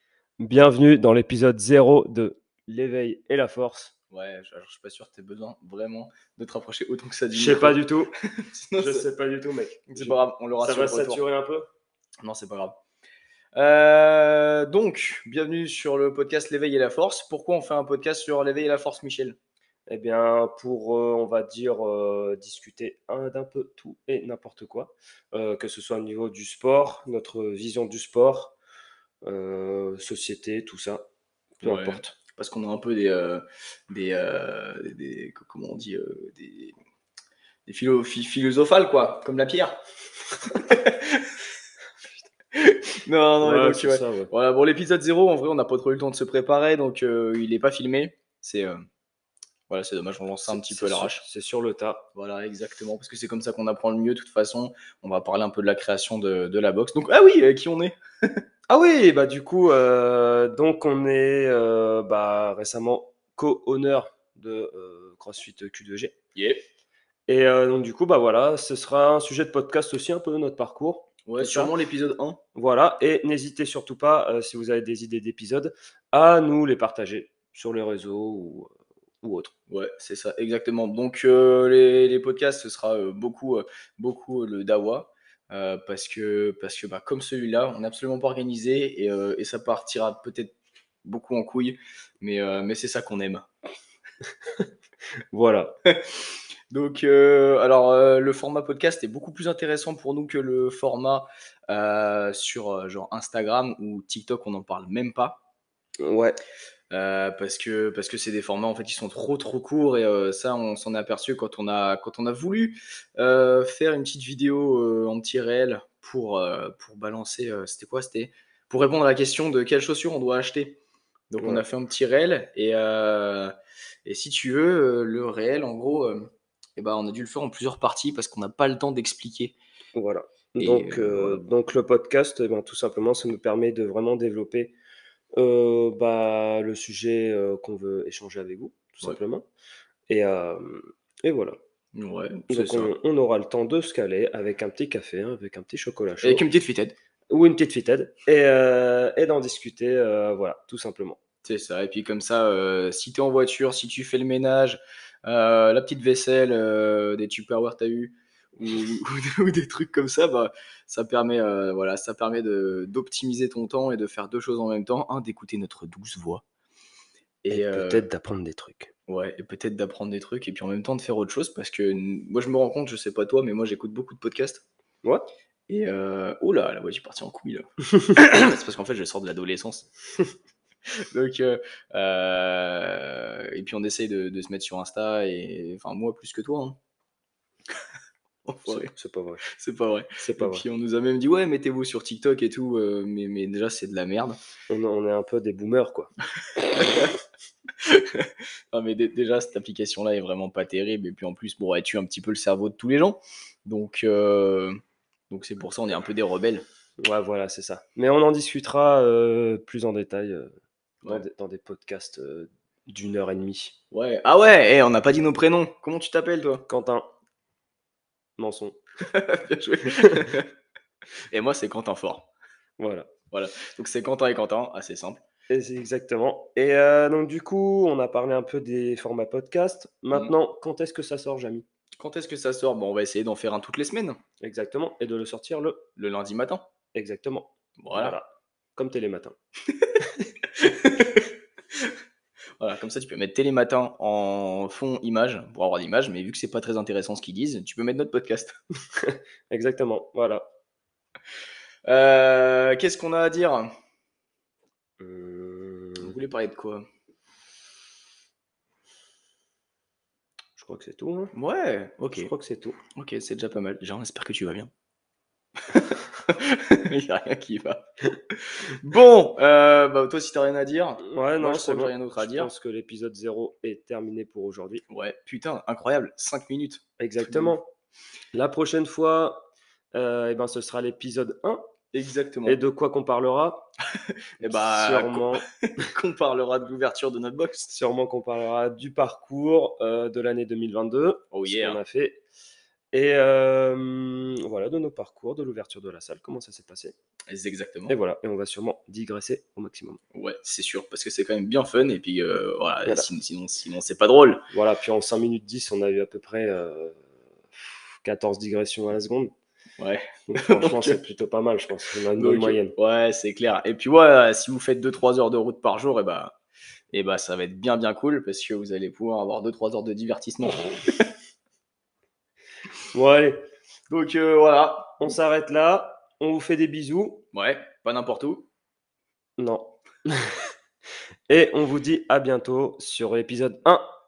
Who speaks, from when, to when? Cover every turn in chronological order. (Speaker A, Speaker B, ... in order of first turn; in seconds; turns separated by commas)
Speaker A: 0.4-3.9, Speaker B: 4.1-7.8, Speaker A: 7.3-8.1, Speaker B: 8.3-9.1, Speaker A: 8.7-11.7, Speaker B: 9.9-11.2, Speaker B: 12.2-12.8, Speaker B: 13.6-19.4, Speaker A: 19.9-28.5, Speaker A: 29.2-31.0, Speaker A: 31.6-32.1, Speaker B: 31.6-36.8, Speaker B: 37.6-39.8, Speaker B: 40.5-41.3, Speaker B: 42.5-48.8, Speaker A: 43.4-44.3, Speaker B: 49.7-51.2, Speaker A: 50.5-52.0, Speaker B: 52.1-58.0, Speaker A: 58.7-66.1, Speaker B: 66.3-66.6, Speaker A: 67.3-71.7, Speaker B: 71.3-72.4, Speaker A: 72.5-79.5, Speaker B: 79.7-90.5, Speaker B: 91.0-93.5, Speaker A: 95.3-95.7, Speaker B: 96.7-105.4, Speaker A: 106.0-106.4, Speaker B: 106.9-120.8, Speaker B: 121.3-123.5, Speaker A: 121.4-121.6, Speaker B: 124.0-129.5, Speaker A: 129.9-134.7, Speaker B: 130.6-131.4, Speaker A: 135.4-139.5, Speaker A: 140.1-141.6, Speaker B: 141.9-142.9, Speaker A: 142.5-146.4, Speaker B: 146.2-146.9, Speaker A: 147.3-151.2, Speaker B: 151.4-166.4, Speaker B: 167.4-168.1, Speaker A: 167.5-168.9, Speaker B: 169.1-174.6, Speaker B: 175.7-179.9, Speaker B: 181.1-186.8, Speaker B: 188.5-188.9, Speaker A: 188.6-189.4, Speaker B: 189.5-194.4, Speaker A: 190.2-190.6, Speaker A: 194.7-196.1, Speaker B: 196.8-197.1, Speaker B: 197.8-206.6, Speaker A: 207.0-210.5, Speaker A: 211.0-213.7, Speaker B: 213.9-216.6, Speaker A: 216.7-217.1, Speaker A: 218.4-218.8, Speaker B: 219.1-220.5, Speaker B: 221.3-222.3, Speaker A: 222.8-223.1, Speaker B: 223.3-225.2, Speaker A: 225.5-231.6, Speaker B: 232.0-234.2, Speaker A: 234.4-235.8, Speaker B: 236.0-236.6, Speaker A: 236.9-239.3, Speaker B: 237.8-238.2, Speaker B: 240.6-241.3, Speaker B: 242.6-248.6, Speaker A: 249.0-250.4, Speaker B: 251.8-253.7, Speaker A: 255.0-256.1, Speaker B: 256.0-256.9, Speaker A: 260.6-261.3, Speaker B: 261.3-262.3, Speaker A: 262.1-262.8, Speaker B: 262.9-264.7, Speaker B: 265.7-267.9, Speaker B: 268.4-272.5, Speaker A: 271.0-274.8, Speaker B: 274.9-277.6, Speaker A: 277.0-277.7, Speaker A: 278.3-281.6, Speaker B: 281.9-282.6, Speaker A: 282.4-283.7, Speaker B: 284.4-287.7, Speaker A: 284.4-285.4, Speaker A: 287.7-292.2, Speaker B: 291.3-291.8, Speaker A: 292.9-296.9, Speaker B: 297.3-297.9, Speaker A: 297.9-300.0, Speaker B: 300.1-304.5, Speaker A: 304.5-307.0, Speaker A: 308.0-309.3, Speaker B: 309.8-311.0, Speaker A: 310.3-312.7, Speaker B: 312.1-316.3, Speaker B: 316.9-321.1, Speaker A: 322.9-323.4, Speaker B: 323.9-325.1, Speaker A: 325.0-327.2, Speaker B: 327.3-328.5, Speaker A: 329.4-330.4, Speaker A: 331.3-333.9